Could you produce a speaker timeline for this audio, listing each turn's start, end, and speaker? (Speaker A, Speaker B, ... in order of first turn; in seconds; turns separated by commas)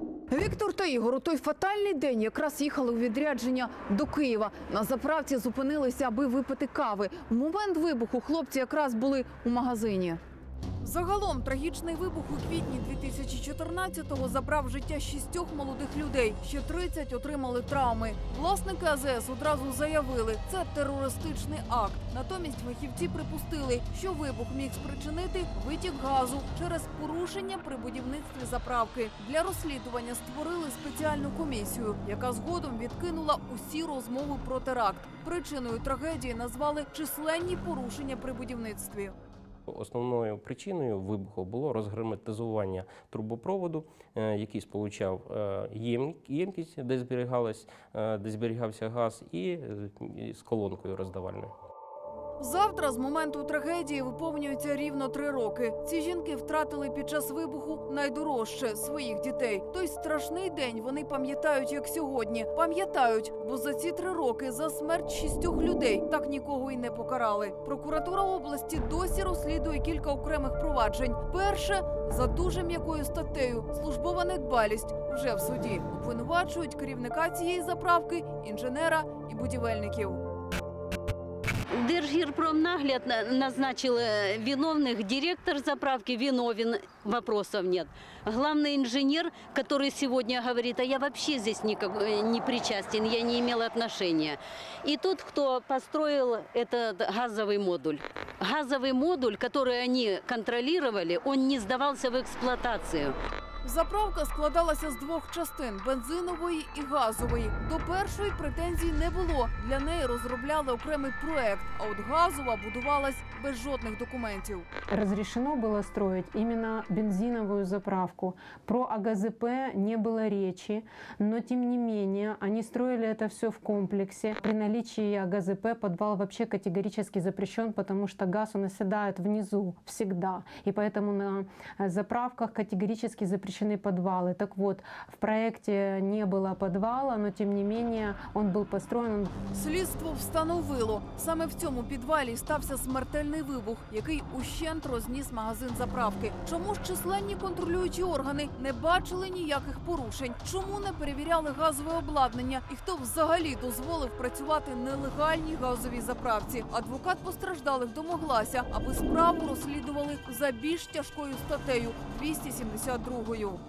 Speaker A: 0.3-10.2, Speaker A: 10.8-39.1, Speaker B: 39.7-51.5, Speaker A: 52.4-80.2, Speaker C: 81.8-103.2, Speaker A: 103.6-114.7, Speaker D: 114.9-139.3, Speaker A: 139.5-163.6